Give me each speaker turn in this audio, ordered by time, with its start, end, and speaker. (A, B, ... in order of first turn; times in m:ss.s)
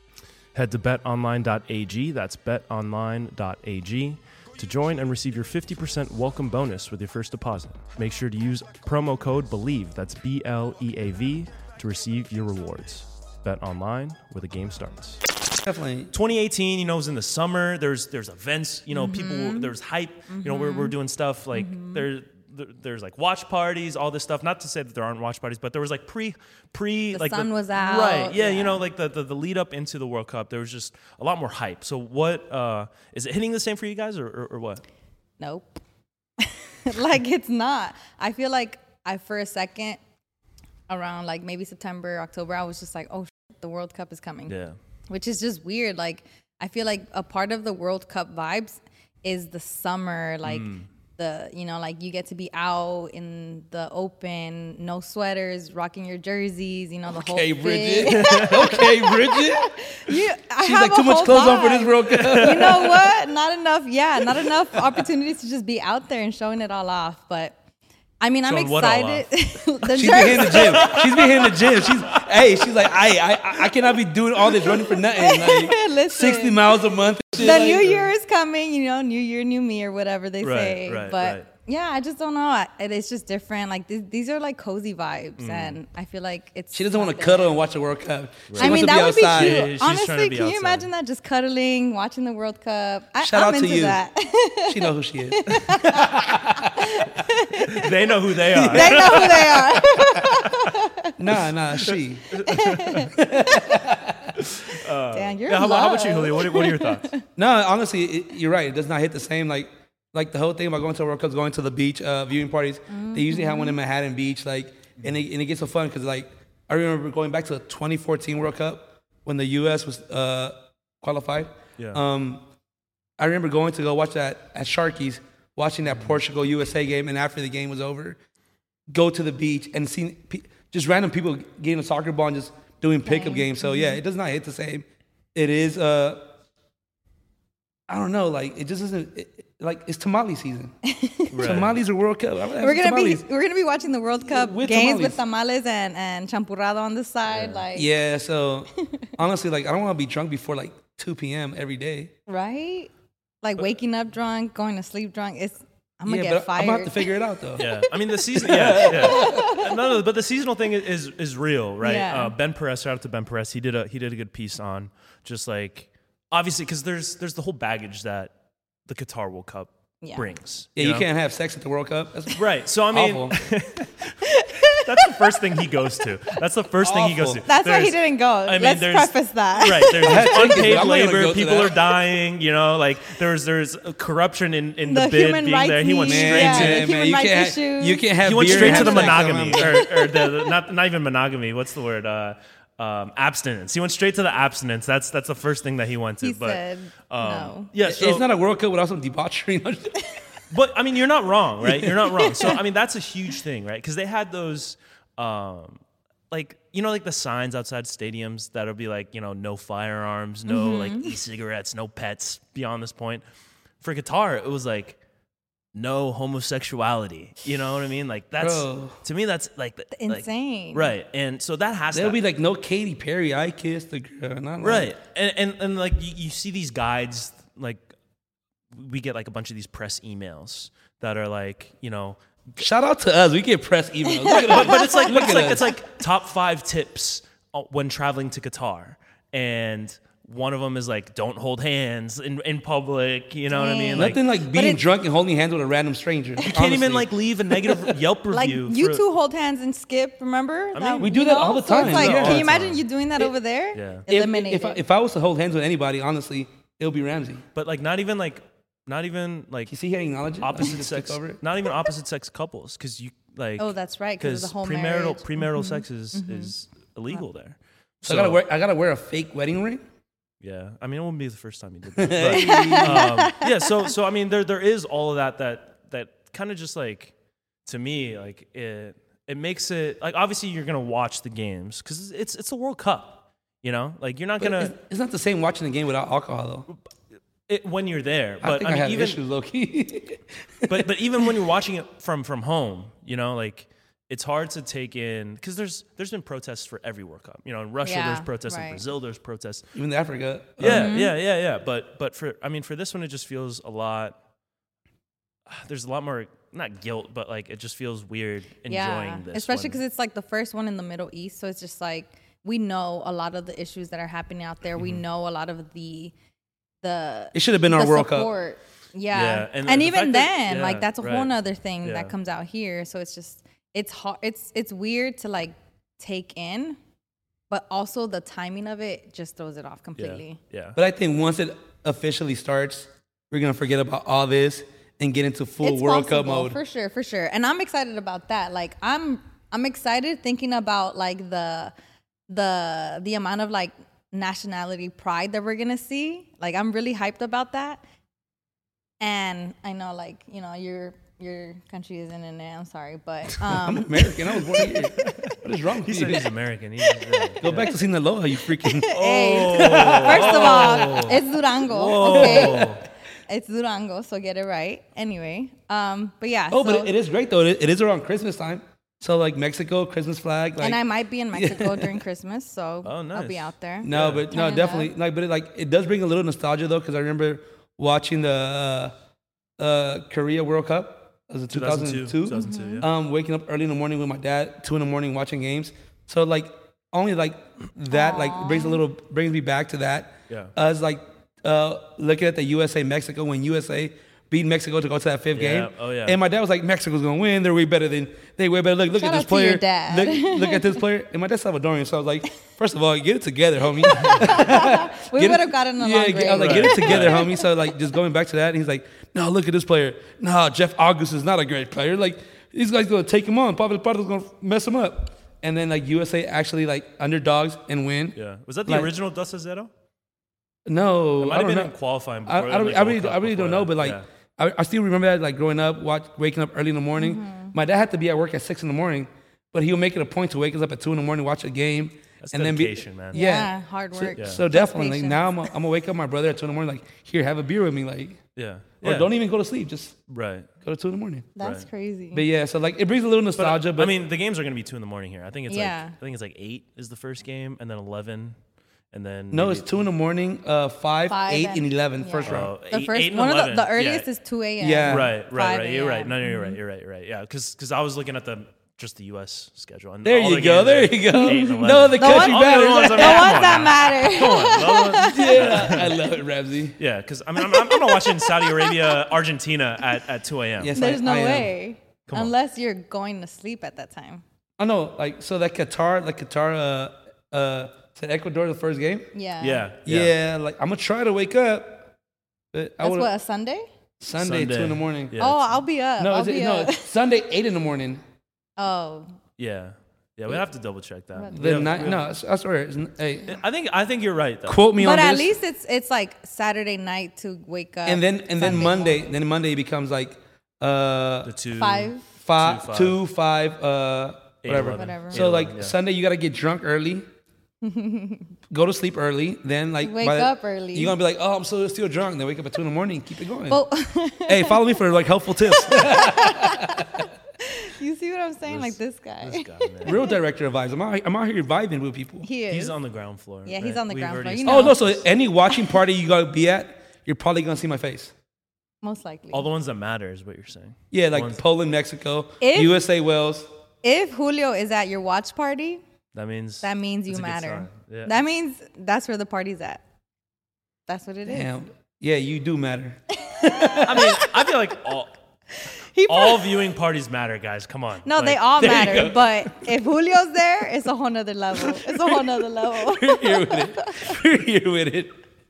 0:00.5-0:15.2 A
0:15.6-0:16.1 B
0:16.1-0:34.8 A
0:18.9-0:19.7 C
0:20.3-0:20.9 C
0:21.5-0:22.1 C
0:27.1-0:28.8 C
0:35.4-0:35.8 C
0:36.4-0:40.0 C
0:40.9-0:44.6 C
0:44.5-0:44.8 A
0:45.1-1:07.6 C
0:50.4-0:50.9 A
0:57.1-0:59.7 B
0:58.0-0:58.8 A
1:00.6-1:03.0 B
1:02.1-1:02.9 A
1:08.2-1:11.0 C
1:08.4-1:09.2 A
1:09.9-1:18.1 B
1:10.1-1:12.2 A
1:14.4-1:16.6 C
1:17.4-1:27.5 C
1:20.4-1:21.4 A
1:25.4-1:25.8 A
1:26.7-1:29.6 B
1:28.5-1:30.9 A
1:28.6-1:37.9 C
1:33.2-1:34.0 B
1:34.7-1:37.0 B
1:37.7-1:40.7 A
1:38.5-1:39.4 B
1:38.7-1:41.2 C
1:41.2-1:42.4 B
1:41.8-1:42.9 A
1:42.4-1:43.9 C
1:42.9-1:44.4 B
1:44.4-1:47.1 A
1:45.1-1:47.2 C
1:47.4-2:02.4 B
1:52.9-1:53.8 C
2:03.2-2:08.2 B
2:08.9-2:16.3 B
2:13.0-2:14.0 C
2:17.9-2:20.8 B
2:20.8-2:21.5 C
2:21.3-2:21.8 A
2:21.4-2:23.2 B
2:22.6-2:27.9 C
2:24.2-2:25.2 B
2:27.3-2:27.6 A
2:27.7-2:32.1 B
2:32.3-2:32.9 C
2:33.4-2:37.1 C
2:36.0-2:37.7 B
2:37.6-2:48.3 A
2:38.4-2:39.4 B
2:38.7-2:39.8 C
2:41.8-2:42.3 C
2:48.9-2:51.1 A
2:50.8-2:53.4 B
2:52.3-3:06.9 A
2:54.2-2:55.3 C
2:56.8-2:57.4 B
2:57.4-3:00.6 C
3:00.0-3:01.8 B
3:04.9-3:10.5 C
3:06.0-3:09.8 B
3:08.2-3:18.3 A
3:16.2-3:17.7 C
3:17.8-3:20.0 B
3:20.5-3:33.2 A
3:21.7-3:22.0 B
3:22.2-3:22.5 C
3:30.5-3:31.1 C
3:33.8-3:35.0 A
3:35.8-3:42.2 A
3:38.4-3:39.0 B
3:39.9-3:40.9 C
3:41.9-3:44.9 B
3:44.6-3:47.9 A
3:48.7-3:52.2 A
3:52.6-3:55.7 B
3:54.0-3:55.2 C
3:54.3-4:04.2 A
4:03.5-4:04.8 C
4:04.0-4:08.0 B
4:06.4-4:09.0 A
4:08.3-4:14.8 C
4:10.7-4:11.1 A
4:11.0-4:12.5 B
4:11.7-4:12.8 A
4:13.7-4:14.1 A
4:14.1-4:17.4 B
4:17.6-4:19.7 A
4:19.7-4:21.4 B
4:20.4-4:28.4 A
4:23.6-4:26.5 C
4:28.0-4:29.8 B
4:30.4-4:37.1 A
4:32.0-4:33.1 B
4:32.3-4:33.9 C
4:37.7-4:44.7 A
4:44.4-4:46.7 B
4:47.5-4:49.2 A
4:48.4-4:50.9 B
4:50.7-4:59.7 A
4:57.8-4:58.8 C
4:59.8-5:01.0 B
5:00.6-5:04.2 A
5:00.6-5:01.2 C
5:05.5-5:09.8 A
5:08.7-5:16.1 C
5:16.8-5:26.8 C
5:17.3-5:18.3 B
5:19.1-5:22.1 A
5:27.5-5:30.4 C
5:30.0-5:30.8 A
5:30.8-5:36.6 B
5:35.6-5:41.7 C
5:42.3-5:47.8 C
5:49.0-5:54.1 C
5:53.4-5:56.3 B
5:54.6-5:57.8 A
5:57.4-6:01.1 B
5:58.6-6:02.7 C
5:58.9-6:02.8 A
6:02.0-6:02.8 B
6:03.3-6:06.9 C
6:06.5-6:10.8 B
6:10.6-6:14.9 C
6:11.3-6:12.0 B
6:12.8-6:14.3 A
6:13.8-6:18.9 B
6:19.6-6:58.9 B
6:21.5-6:22.9 A
6:22.3-6:22.8 C
6:27.9-6:28.8 C
6:35.3-6:36.2 A
6:38.9-6:40.8 C
6:43.8-6:47.7 C
6:46.4-6:47.3 A
6:58.2-6:59.7 A
7:00.7-7:01.8 B
7:01.2-7:04.0 A
7:02.3-7:18.2 B
7:07.0-7:07.5 C
7:12.2-7:13.3 A
7:13.1-7:15.5 C
7:14.2-7:14.4 A
7:18.4-7:19.1 A
7:18.8-7:20.0 B
7:20.1-7:20.5 A
7:20.6-7:21.3 B
7:21.4-7:22.3 C
7:21.4-7:21.7 A
7:22.1-7:23.9 B
7:23.4-7:28.4 A
7:25.5-7:25.9 C
7:28.9-7:29.8 A
7:29.3-7:32.5 B
7:31.1-7:36.6 C
7:32.2-7:34.1 A
7:34.6-7:35.1 B
7:34.9-7:46.0 A
7:40.0-7:43.7 B
7:41.1-7:45.8 C
7:45.0-7:46.8 B
7:46.8-7:50.7 A
7:47.4-7:49.0 C
7:50.6-7:51.5 B
7:50.7-7:54.2 C
7:52.1-7:52.3 A
7:54.6-7:59.1 B
7:59.1-7:59.7 C
7:59.4-8:00.1 A
7:59.8-8:01.9 B
8:02.5-8:03.1 B
8:02.8-8:03.7 C
8:04.0-8:05.2 B
8:04.2-8:05.5 A
8:05.2-8:06.9 C
8:06.0-8:08.0 B
8:08.6-8:09.1 C
8:09.4-8:12.0 A
8:11.2-8:11.9 C
8:11.3-8:13.4 B
8:13.3-8:14.6 A
8:14.4-8:15.3 B
8:14.8-8:19.0 C
8:17.8-8:21.3 B
8:21.2-8:23.0 A
8:21.5-8:22.0 C
8:22.2-8:27.0 B
8:24.4-8:25.8 A
8:24.7-8:25.2 C
8:27.6-8:28.3 C
8:28.5-8:33.6 B
8:29.8-8:30.9 C
8:33.5-8:34.6 C
8:34.3-8:37.0 B
8:35.5-8:40.1 C
8:38.5-8:40.0 A
8:39.8-8:42.3 B
8:42.2-8:42.8 C
8:42.5-8:45.0 A
8:43.4-8:44.8 C
8:44.4-8:48.1 B
8:45.5-8:45.8 C
8:48.8-8:49.5 C
8:49.3-8:51.4 A
8:50.9-8:53.5 B
8:52.4-8:52.8 C
8:53.8-8:55.8 C
8:56.1-8:58.1 A
8:56.6-8:59.8 C
9:00.9-9:01.5 C
9:01.3-9:04.2 B
9:03.2-9:04.3 C
9:03.8-9:05.1 A
9:05.6-9:06.6 C
9:06.1-9:09.1 A
9:08.0-9:14.1 C
9:08.6-9:09.3 B
9:11.8-9:15.2 B